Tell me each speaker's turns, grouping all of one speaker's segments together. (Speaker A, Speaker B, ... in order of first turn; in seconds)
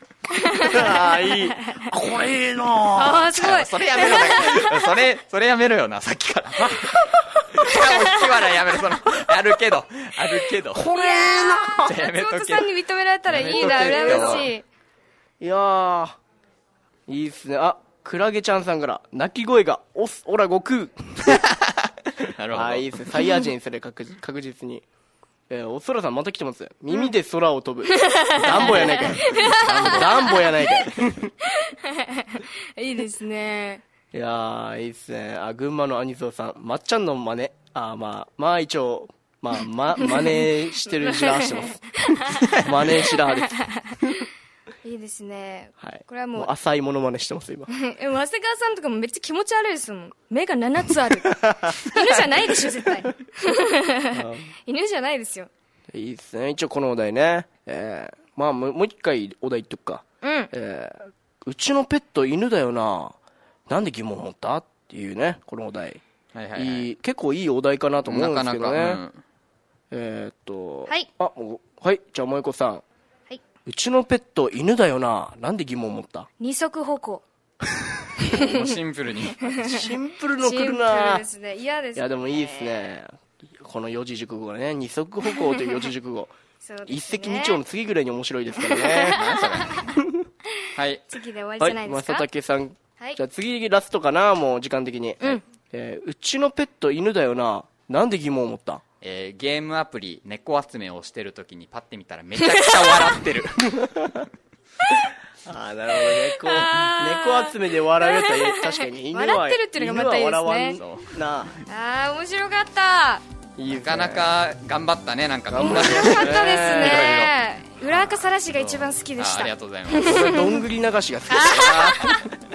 Speaker A: 0.4-1.9, 3.0-4.9, 10.9-14.7, 27.9-30.9, 31.5-33.8, 40.0-44.3, 44.8-46.5, 47.7-55.5, 60.2-60.5, 76.4-77.2, 78.2-78.6, 79.4-79.9, 80.4-83.0, 86.6-87.6, 88.6-90.0, 91.1-92.3, 102.4-103.2, 106.0-110.8, 111.7-113.2, 115.6-120.6, 121.3-122.3
Speaker B: 0.6-3.3, 10.7-11.9, 13.3-14.5, 15.4-16.2, 17.1-21.4, 22.5-24.9, 25.5-31.3, 34.1-41.8, 42.5-43.6, 45.8-47.7, 51.2-52.4, 54.1-54.5, 55.9-63.2, 63.7-66.0, 66.6-69.0, 69.9-72.8, 73.7-76.3, 79.6-81.2, 82.0-86.3, 86.9-89.3, 89.9-90.2, 91.6-98.8, 103.7-104.2, 105.5-111.6, 113.6-114.3, 115.5-117.3, 120.0-122.3
Speaker C: 3.3-10.9, 11.8-12.7, 13.3-14.5, 21.2-23.0, 66.3-66.9, 68.1-69.2, 78.3-79.4, 89.1-89.9, 90.8-91.0, 99.0-103.9, 110.8-111.1, 113.7-120.4, 121.5-122.3